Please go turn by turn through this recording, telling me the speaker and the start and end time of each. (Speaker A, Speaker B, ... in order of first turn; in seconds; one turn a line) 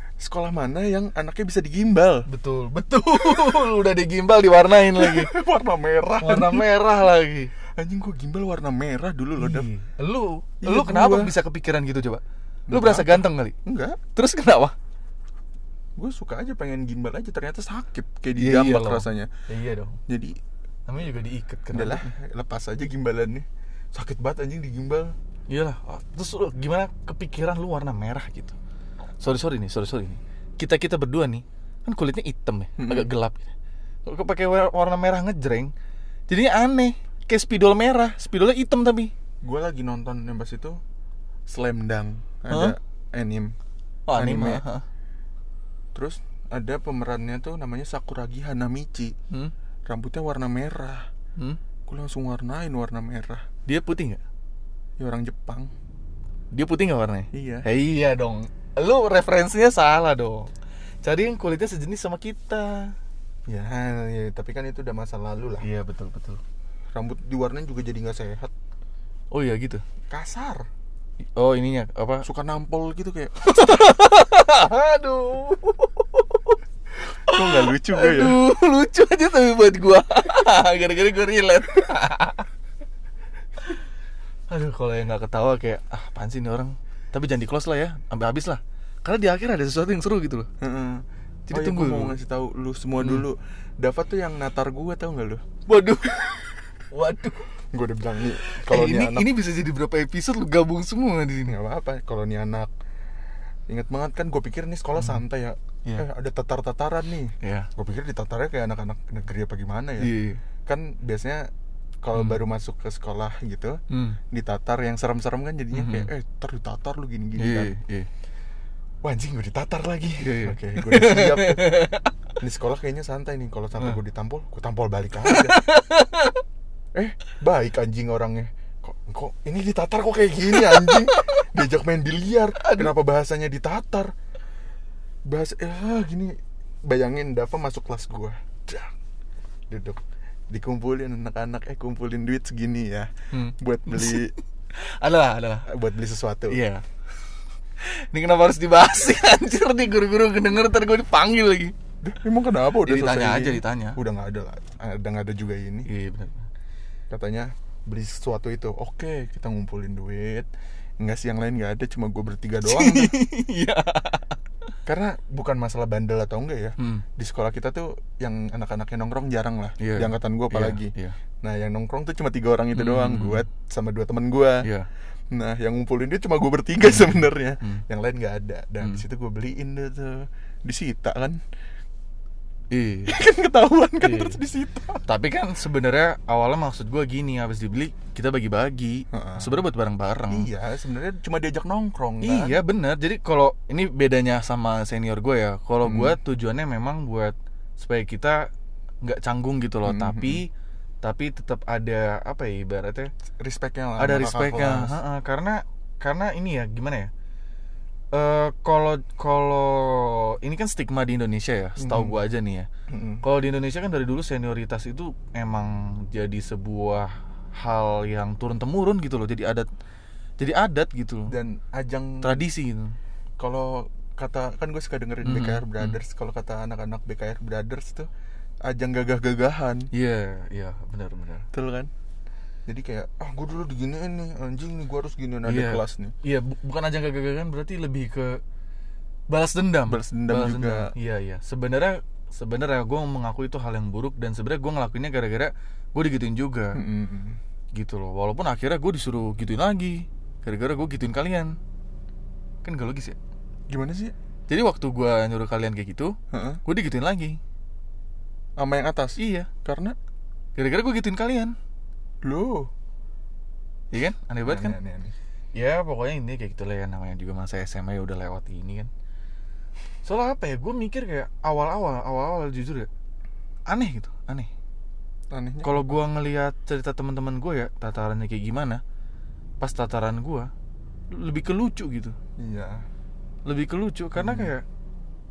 Speaker A: 0.2-2.3
Speaker B: 2.3-5.3
Speaker A: 4.9-6.7
Speaker B: 6.2-7.5
Speaker A: 7.8-9.7
Speaker B: 9.4-13.5
Speaker A: 10.6-11.3
Speaker A: 12.7-14.0
Speaker B: 14.1-14.7
Speaker A: 16.0-19.3
Speaker B: 18.3-20.0
Speaker A: 20.1-20.3
Speaker B: 20.9-22.1
Speaker A: 21.7-25.1
Speaker B: 25.5-28.6
Speaker B: 29.2-33.5
Speaker A: 32.8-33.1
Speaker B: 34.0-35.7
Speaker B: 36.3-39.1
Speaker A: 39.4-40.8
Speaker A: 41.5-43.5
Speaker B: 42.5-42.8
Speaker B: 44.1-44.8
Speaker A: 44.1-44.6
Speaker A: 45.9-49.1
Speaker A: 49.9-51.1
Speaker A: 51.9-53.4
Speaker B: 53.6-54.2
Speaker A: 55.0-55.7
Speaker B: 56.5-60.5
Speaker A: 57.3-57.7
Speaker B: 61.0-62.9
Speaker A: 63.5-65.7
Speaker B: 65.6-66.4
Speaker A: 66.9-68.5
Speaker B: 69.3-69.8
Speaker A: 70.1-70.7
Speaker B: 71.3-72.2
Speaker A: 72.2-73.3
Speaker B: 73.4-76.6
Speaker A: 77.1-78.4
Speaker B: 77.2-82.5
Speaker B: 84.5-90.5
Speaker A: 90.6-95.4
Speaker B: 91.5-92.2
Speaker B: 93.0-93.2
Speaker B: 95.7-97.5
Speaker A: 97.7-99.3
Speaker B: 98.4-101.6
Speaker A: 101.5-102.7
Speaker A: 103.7-110.1
Speaker B: 107.4-107.7
Speaker B: 110.0-110.4
Speaker A: 110.7-111.5
Speaker A: 112.0-113.8
Speaker B: 113.9-114.2
Speaker A: 114.3-117.7
Speaker B: 115.7-116.1
Speaker B: 117.4-118.1
Speaker A: 119.0-121.8
Speaker B: 120.2-122.1
Speaker A: 122.4-125.6
Speaker B: 125.2-126.4
Speaker A: 126.9-134.1
Speaker B: 130.5-131.4
Speaker B: 132.6-133.0
Speaker A: 135.2-138.9
Speaker A: 139.7-144.3
Speaker B: 143.3-145.7
Speaker A: 145.7-146.6
Speaker B: 146.5-146.8
Speaker B: 147.8-151.7
Speaker A: 152.0-155.9
Speaker B: 152.8-154.0
Speaker B: 155.9-156.5
Speaker A: 157.1-160.5
Speaker A: 161.0-163.2
Speaker B: 162.6-164.4
Speaker A: 164.8-174.7
Speaker B: 166.8-167.0
Speaker B: 169.8-171.2
Speaker B: 172.8-173.4
Speaker B: 174.6-174.9
Speaker A: 175.3-181.4
Speaker B: 176.8-177.8
Speaker B: 182.7-183.1
Speaker A: 183.1-185.0
Speaker B: 184.0-184.4
Speaker B: 185.1-190.5
Speaker A: 189.1-189.6
Speaker A: 190.3-192.6
Speaker B: 192.2-198.5
Speaker A: 195.8-196.2
Speaker B: 199.0-200.5
Speaker A: 199.8-200.4
Speaker B: 201.0-203.1
Speaker A: 203.4-205.0
Speaker B: 204.0-207.1
Speaker B: 208.1-212.7
Speaker A: 211.8-212.2
Speaker A: 212.9-213.2
Speaker B: 213.2-219.7
Speaker B: 220.4-221.3
Speaker A: 221.3-222.4
Speaker B: 222.2-222.9
Speaker A: 223.4-228.1
Speaker B: 225.2-226.0
Speaker A: 228.6-229.9
Speaker B: 229.9-231.5
Speaker A: 231.5-231.9
Speaker A: 232.7-236.1
Speaker B: 235.4-238.4
Speaker B: 239.3-246.8
Speaker A: 239.9-240.9
Speaker A: 246.7-247.4
Speaker B: 247.7-251.6
Speaker B: 252.6-253.2
Speaker A: 253.7-254.1
Speaker B: 254.5-257.4
Speaker A: 256.3-256.6
Speaker A: 258.6-259.9
Speaker B: 259.2-259.5
Speaker B: 260.6-261.6
Speaker A: 262.2-262.7
Speaker B: 263.9-264.8
Speaker A: 264.4-265.1
Speaker B: 265.5-268.9
Speaker B: 270.0-272.9
Speaker B: 273.7-274.5
Speaker A: 275.3-275.9
Speaker B: 275.6-278.8
Speaker B: 279.6-280.5
Speaker B: 281.1-282.1
Speaker A: 282.4-282.8
Speaker B: 283.4-284.6
Speaker A: 284.1-284.5